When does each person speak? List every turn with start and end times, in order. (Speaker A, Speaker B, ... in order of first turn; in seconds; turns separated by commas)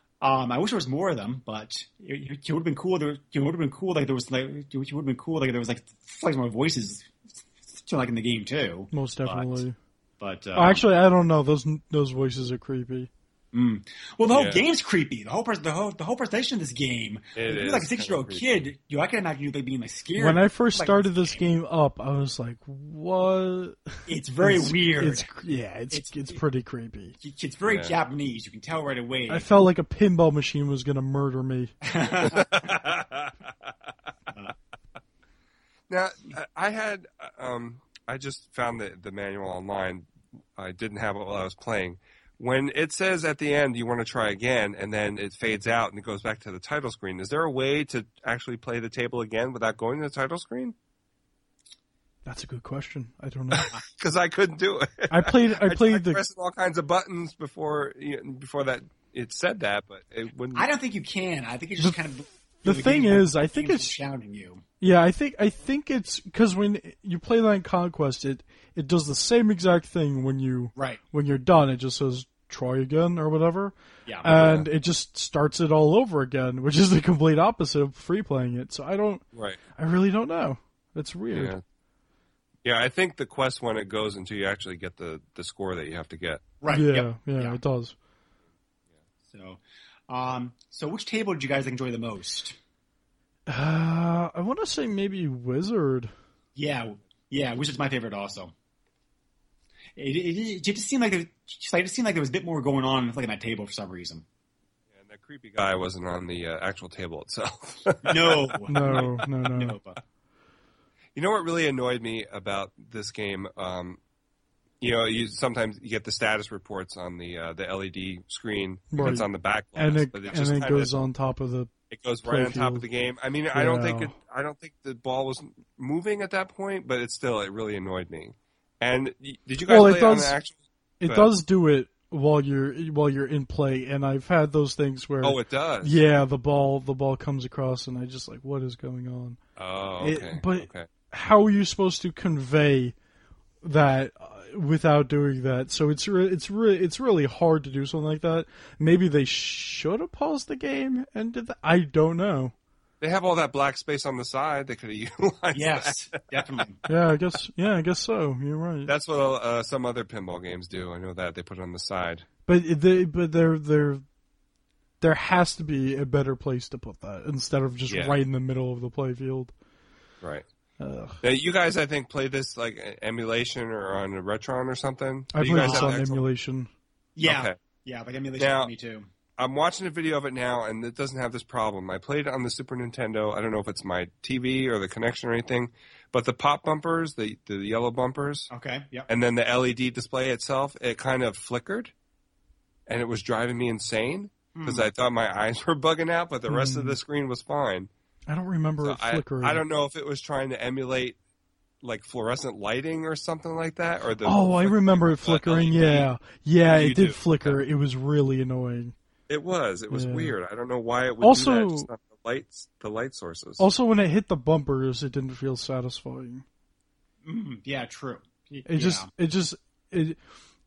Speaker A: 0.2-9.6, Speaker B: 8.9-9.8, Speaker A: 10.2-10.8, Speaker B: 10.6-13.1, Speaker A: 13.5-21.4, Speaker C: 14.3-14.6, Speaker C: 17.4-18.4, Speaker B: 20.2-27.2, Speaker A: 24.1-25.3, Speaker A: 25.9-26.3, Speaker A: 27.2-29.5, Speaker C: 27.6-27.9, Speaker B: 29.3-31.7, Speaker A: 31.8-32.7, Speaker C: 32.2-33.3, Speaker C: 35.9-50.7, Speaker B: 52.2-53.7, Speaker C: 53.5-60.7, Speaker B: 55.1-56.2, Speaker A: 60.5-64.6, Speaker B: 62.6-63.9, Speaker B: 64.8-79.2, Speaker A: 70.8-71.0, Speaker C: 74.2-74.7, Speaker C: 79.3-79.6, Speaker B: 79.8-81.5, Speaker C: 81.3-81.6, Speaker C: 82.6-86.5, Speaker A: 86.6-87.6, Speaker B: 86.7-88.0, Speaker A: 89.3-92.6, Speaker B: 93.5-96.1, Speaker A: 96.5-98.5, Speaker A: 100.0-104.2, Speaker C: 104.9-109.1, Speaker A: 108.0-110.0, Speaker B: 108.7-109.8, Speaker C: 111.1-114.0, Speaker C: 114.8-121.1, Speaker B: 118.9-121.7, Speaker C: 121.9-131.3, Speaker B: 122.2-122.9, Speaker B: 123.5-124.1, Speaker B: 129.7-130.4, Speaker B: 131.0-139.4, Speaker C: 135.2-136.0, Speaker C: 139.6-140.9, Speaker B: 140.0-142.9, Speaker B: 143.6-152.5, Speaker C: 153.0-156.6, Speaker A: 155.5-156.8, Speaker B: 156.9-158.9, Speaker C: 158.9-162.3, Speaker B: 162.5-164.0, Speaker B: 165.0-169.5, Speaker C: 167.9-168.2, Speaker B: 170.8-171.2, Speaker C: 171.2-176.2, Speaker B: 175.3-176.7, Speaker A: 175.6-175.9, Speaker A: 177.2-179.1, Speaker C: 177.2-177.6, Speaker C: 178.4-178.7, Speaker C: 179.4-188.5, Speaker A: 188.5-189.1, Speaker C: 189.1-191.9, Speaker C: 192.9-197.9, Speaker A: 194.6-194.9, Speaker B: 196.5-197.0, Speaker B: 198.3-199.6, Speaker C: 198.8-201.2, Speaker C: 201.8-206.1, Speaker B: 204.2-208.9, Speaker C: 206.7-207.6, Speaker C: 209.3-213.7, Speaker B: 209.9-210.3, Speaker B: 211.2-211.9, Speaker B: 213.6-216.4, Speaker A: 217.2-219.1, Speaker B: 218.7-220.2